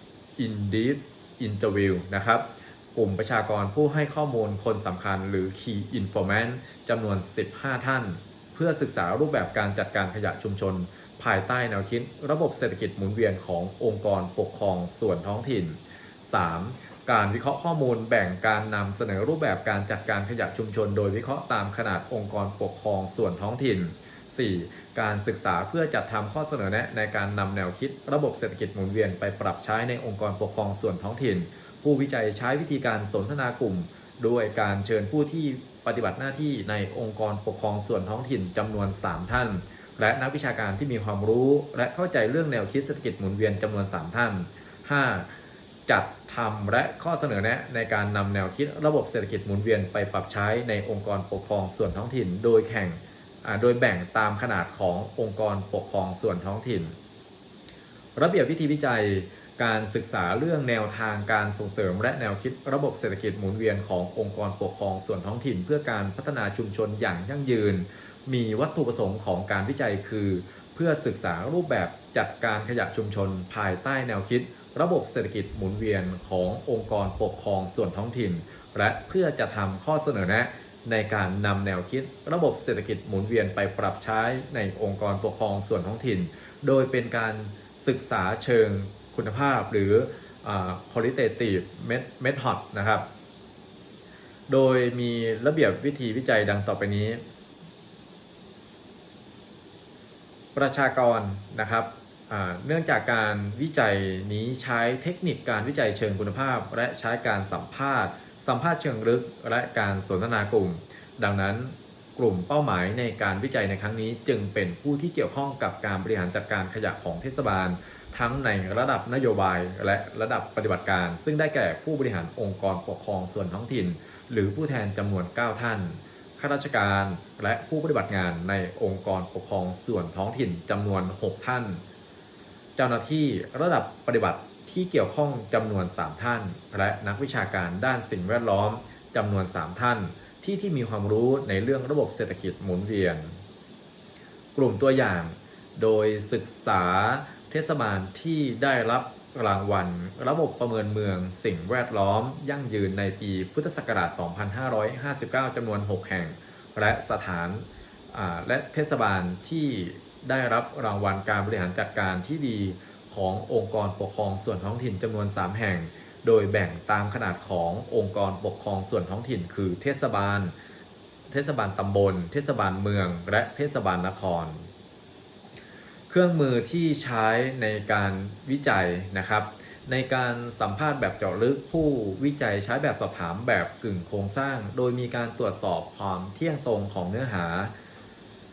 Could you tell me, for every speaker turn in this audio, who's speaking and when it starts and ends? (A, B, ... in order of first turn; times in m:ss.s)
0:00.4-0:45.3 A
0:45.9-0:56.9 A
0:58.2-1:33.1 A
1:34.5-1:37.2 A
1:40.6-2:11.8 A
2:12.8-2:23.4 A
2:24.6-2:50.6 A
2:51.3-2:54.7 A
2:56.1-3:07.7 A